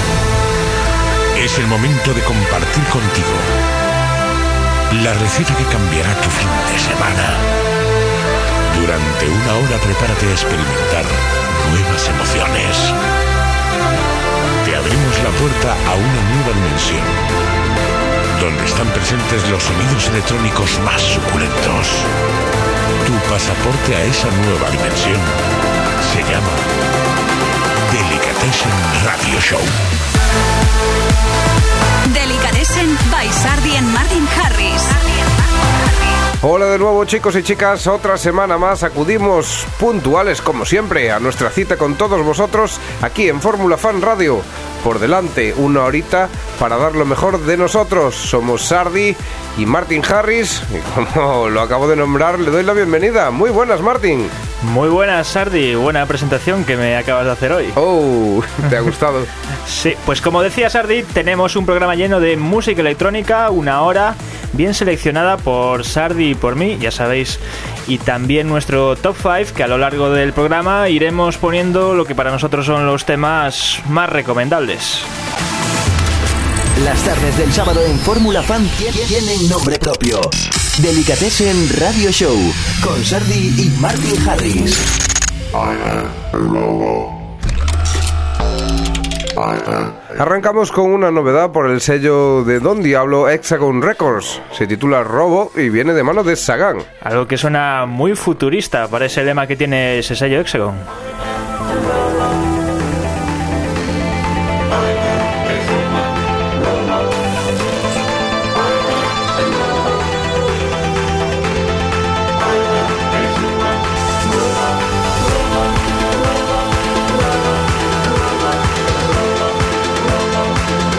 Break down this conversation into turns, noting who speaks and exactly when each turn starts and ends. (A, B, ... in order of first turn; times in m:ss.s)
0:01.4-0:03.5 A
0:04.9-0:07.4 A
0:08.7-0:12.9 A
0:14.6-0:17.2 A
0:18.4-0:22.1 A
0:23.0-0:25.4 A
0:26.0-0:26.6 A
0:27.8-0:29.7 A
0:32.1-0:35.0 B
0:36.4-0:54.3 C
0:54.6-0:57.8 D
0:57.8-0:59.3 C
0:59.7-1:15.1 D
1:16.8-1:24.8 E
1:30.1-1:36.9 C
1:37.0-1:40.9 D